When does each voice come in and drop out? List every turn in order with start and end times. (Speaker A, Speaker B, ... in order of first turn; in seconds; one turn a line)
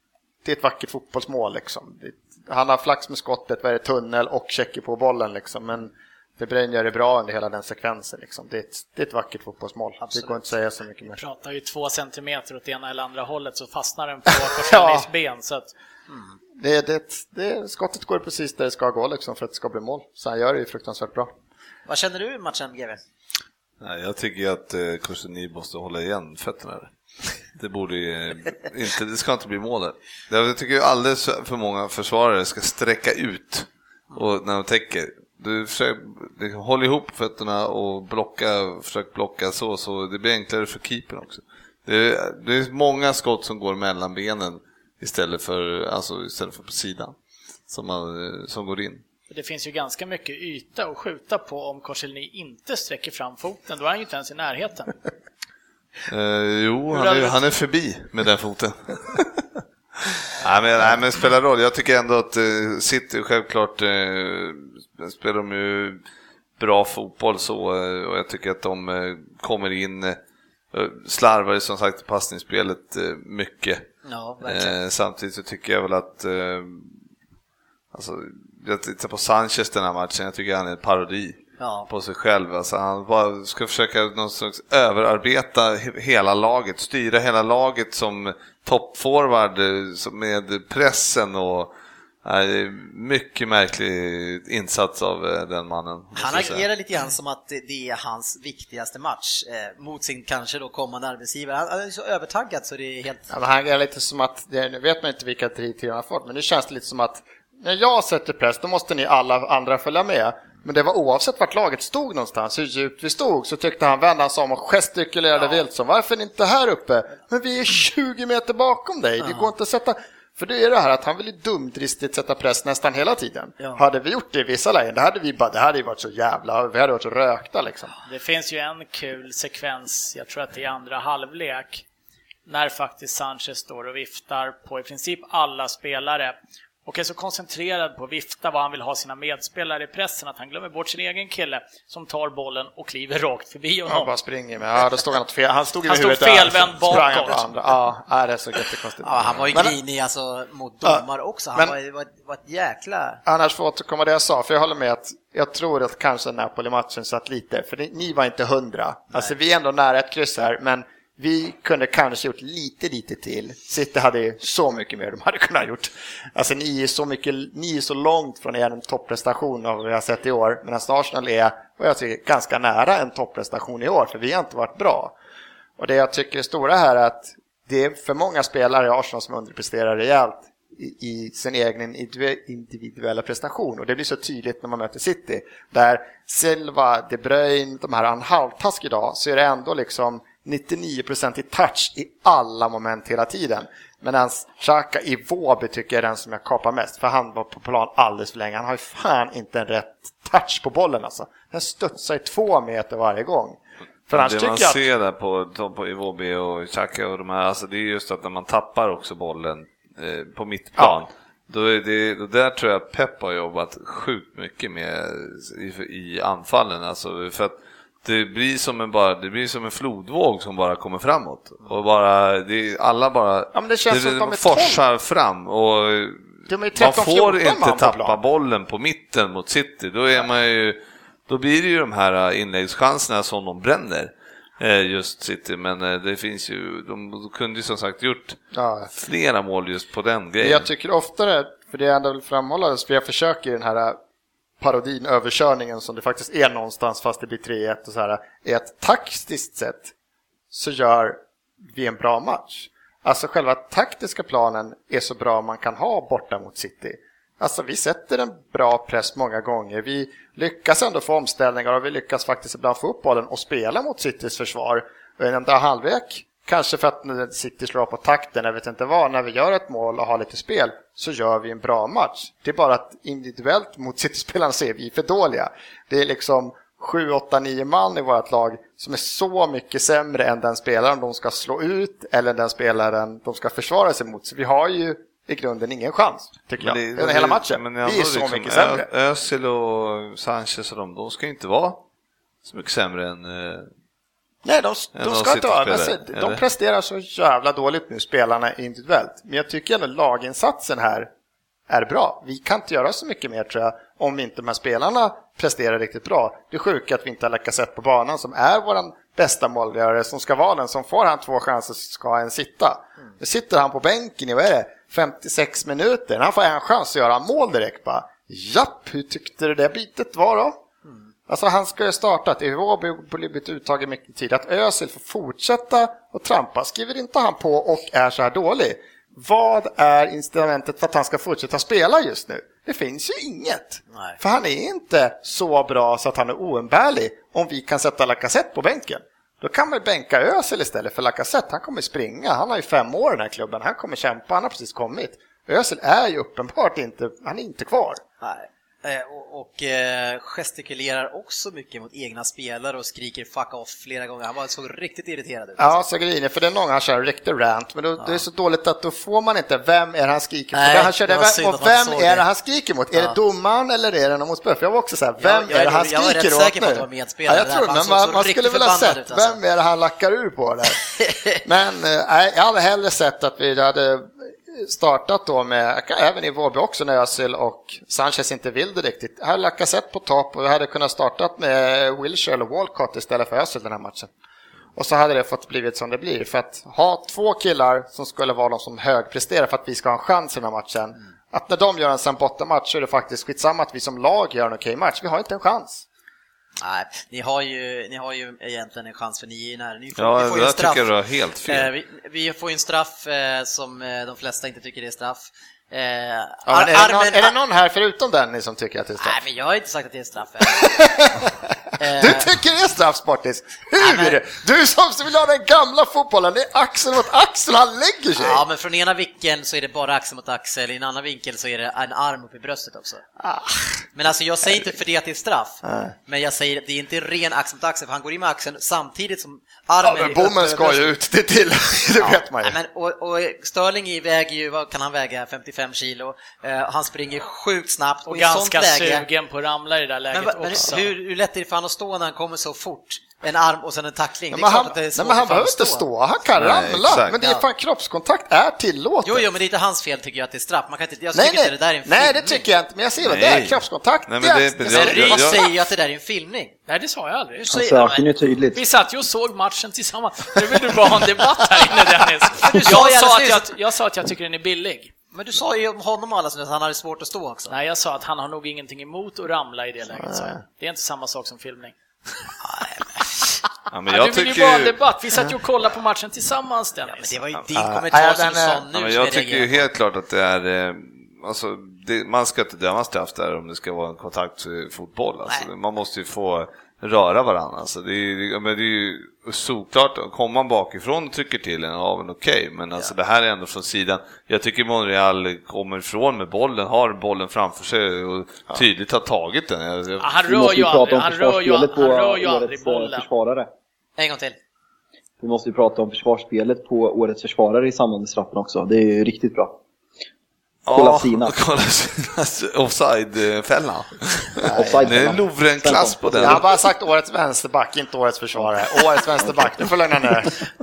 Speaker A: 0.4-11.2
Speaker B: 10.0-10.4
Speaker C: 11.1-15.7
Speaker A: 14.3-15.1
Speaker B: 16.1-16.4
Speaker A: 16.6-21.3
Speaker B: 21.9-23.0
Speaker D: 23.8-26.9
Speaker D: 27.5-47.1
Speaker D: 47.7-49.0
Speaker C: 49.3-55.0
Speaker D: 56.1-59.5
Speaker C: 56.9-57.4
Speaker D: 60.4-66.0
Speaker D: 66.6-70.2
Speaker D: 70.7-73.9
Speaker B: 74.0-74.7
Speaker D: 74.4-76.9
Speaker D: 77.9-91.7
Speaker B: 81.6-81.9
Speaker D: 92.2-96.6
Speaker B: 96.2-103.3
Speaker A: 103.3-127.9
Speaker B: 119.2-119.5
Speaker C: 128.1-131.8
Speaker C: 132.4-144.1
Speaker A: 143.8-149.8
Speaker C: 145.8-147.5
Speaker B: 149.0-153.2
Speaker A: 153.2-175.1
Speaker A: 175.8-204.8
Speaker D: 204.1-238.4
Speaker A: 210.8-211.0
Speaker A: 223.5-224.8
Speaker A: 226.5-228.2
Speaker A: 238.5-238.9
Speaker D: 238.9-240.7
Speaker A: 240.4-244.0
Speaker A: 244.6-249.9
Speaker A: 250.5-288.9
Speaker D: 286.6-291.8
Speaker D: 292.4-293.7
Speaker A: 294.4-301.1
Speaker D: 294.9-296.4
Speaker A: 301.7-320.6
Speaker A: 321.3-348.0
Speaker B: 333.9-334.2
Speaker B: 348.2-355.8
Speaker A: 355.6-370.8
Speaker B: 360.5-362.2
Speaker B: 365.2-369.4
Speaker B: 371.0-371.4
Speaker A: 371.4-384.1
Speaker A: 384.8-395.8
Speaker B: 396.6-400.9
Speaker D: 400.0-401.7
Speaker B: 401.4-407.3
Speaker A: 406.4-409.2
Speaker B: 409.0-410.8
Speaker A: 410.6-418.4
Speaker B: 411.8-412.3
Speaker B: 413.8-414.2
Speaker B: 418.2-423.0
Speaker A: 423.2-423.9
Speaker B: 423.9-430.9
Speaker A: 425.6-425.9
Speaker A: 429.8-432.6
Speaker B: 431.9-439.1
Speaker C: 438.1-440.9
Speaker B: 440.1-445.9
Speaker A: 444.3-449.2
Speaker D: 446.4-447.2
Speaker B: 449.0-452.4
Speaker A: 451.1-455.1
Speaker D: 453.0-455.4
Speaker B: 454.6-456.6
Speaker C: 454.8-455.4
Speaker C: 456.7-464.9
Speaker E: 457.5-458.6
Speaker B: 462.3-463.5
Speaker B: 465.1-467.5
Speaker C: 467.5-471.7
Speaker A: 470.0-470.4
Speaker B: 472.4-473.4
Speaker D: 473.7-474.8
Speaker C: 473.9-477.2
Speaker B: 476.8-479.6
Speaker A: 477.5-478.6
Speaker D: 478.7-500.1
Speaker C: 500.0-503.1
Speaker E: 500.2-503.5
Speaker B: 504.0-504.4
Speaker E: 505.2-509.5
Speaker D: 510.6-516.4
Speaker E: 510.7-511.3
Speaker A: 514.4-514.9
Speaker E: 514.5-516.4
Speaker A: 516.1-520.4
Speaker E: 519.2-519.6